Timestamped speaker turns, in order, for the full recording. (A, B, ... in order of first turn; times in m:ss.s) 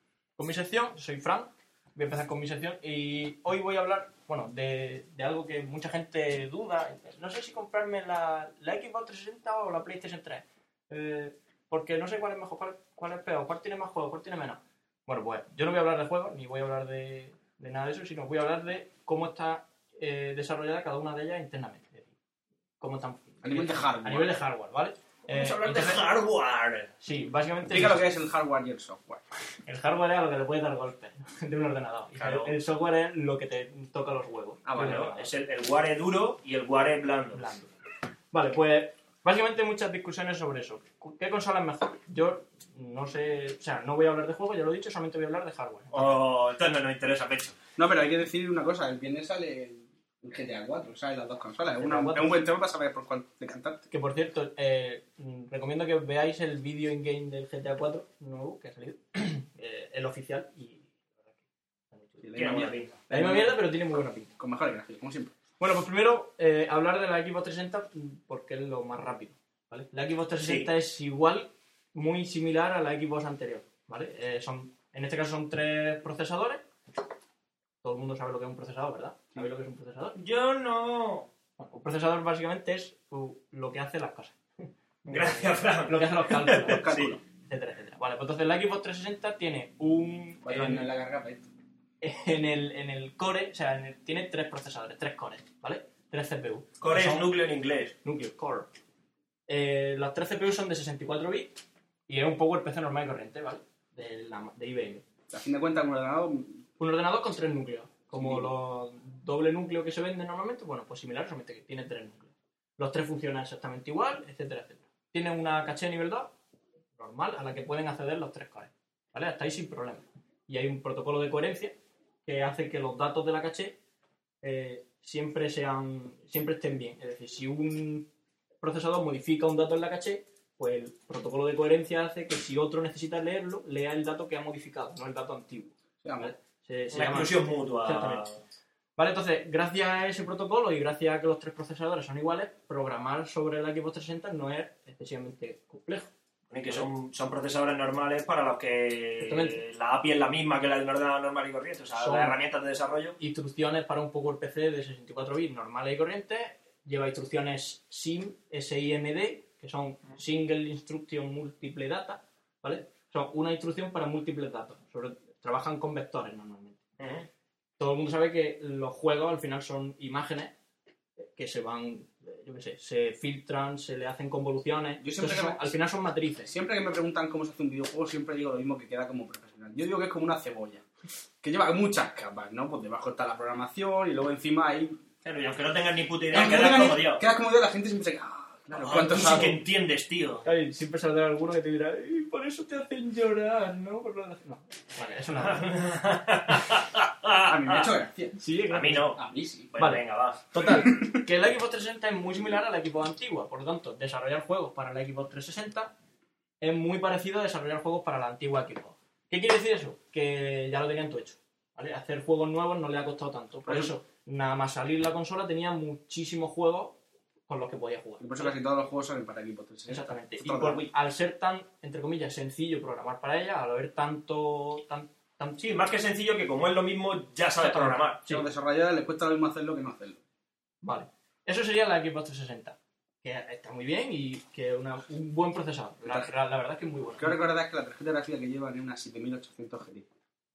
0:00.4-0:22.1 A
0:22.8-0:26.0 A
0:23.4-0:24.3 B
0:25.3-0:26.9 C
0:27.0-0:28.0 A
0:27.7-0:29.2 B
0:29.7-0:35.3 A
0:32.2-0:32.5 C
0:34.6-0:35.1 B
0:34.8-0:37.4 C
0:37.3-0:37.7 A
0:38.3-0:46.2 A
0:45.9-0:47.6 C
0:47.8-0:53.8 B
0:51.8-0:52.4 A
0:53.9-1:01.4 A
1:01.9-1:02.3 A
1:02.2-1:03.6 B
1:02.4-1:02.9 C
1:03.1-1:04.3 A
1:04.4-1:05.3 B
1:05.6-1:16.6 A
1:10.4-1:10.7 C
1:17.8-1:20.2 A
1:20.2-1:21.3 C
1:21.6-1:26.9 A
1:25.1-1:27.1 C
1:26.6-1:27.2 B
1:27.4-1:30.9 A
1:30.4-1:31.5 B
1:32.0-1:37.3 A
1:36.8-1:38.0 C
1:38.0-1:38.7 A
1:39.5-1:45.0 A
1:45.3-1:46.6 B
1:46.8-1:56.3 A
1:48.1-1:48.5 B
1:57.0-2:03.8 A
2:04.4-2:08.1 A
2:08.6-2:18.3 A
2:16.0-2:16.3 B
2:16.9-2:18.4 C
2:19.0-2:26.1 A
2:26.5-2:33.2 C
2:29.2-2:29.6 A
2:32.0-2:32.4 A
2:33.2-2:46.8 A
2:47.0-2:47.3 C
2:47.8-2:50.5 A
2:51.2-2:56.5 A
2:55.0-2:55.8 B
2:56.5-3:00.8 B
3:01.4-3:05.0 B
3:05.2-3:07.2 C
3:06.3-3:09.6 B
3:08.7-3:10.5 C
3:10.4-3:15.7 A
3:15.4-3:17.9 C
3:17.5-3:18.4 B
3:18.4-3:19.1 A
3:18.7-3:19.2 C
3:19.2-3:19.7 B
3:19.7-3:20.4 C
3:19.8-3:25.9 A
3:20.8-3:21.2 B
3:26.6-3:38.6 A
3:33.7-3:33.9 B
3:38.2-3:40.9 B
3:39.9-3:45.6 A
3:45.6-3:48.2 C
3:47.6-3:48.5 A
3:48.3-3:50.2 B
3:50.8-3:57.4 A
3:56.1-3:56.3 B
3:57.2-4:00.1 B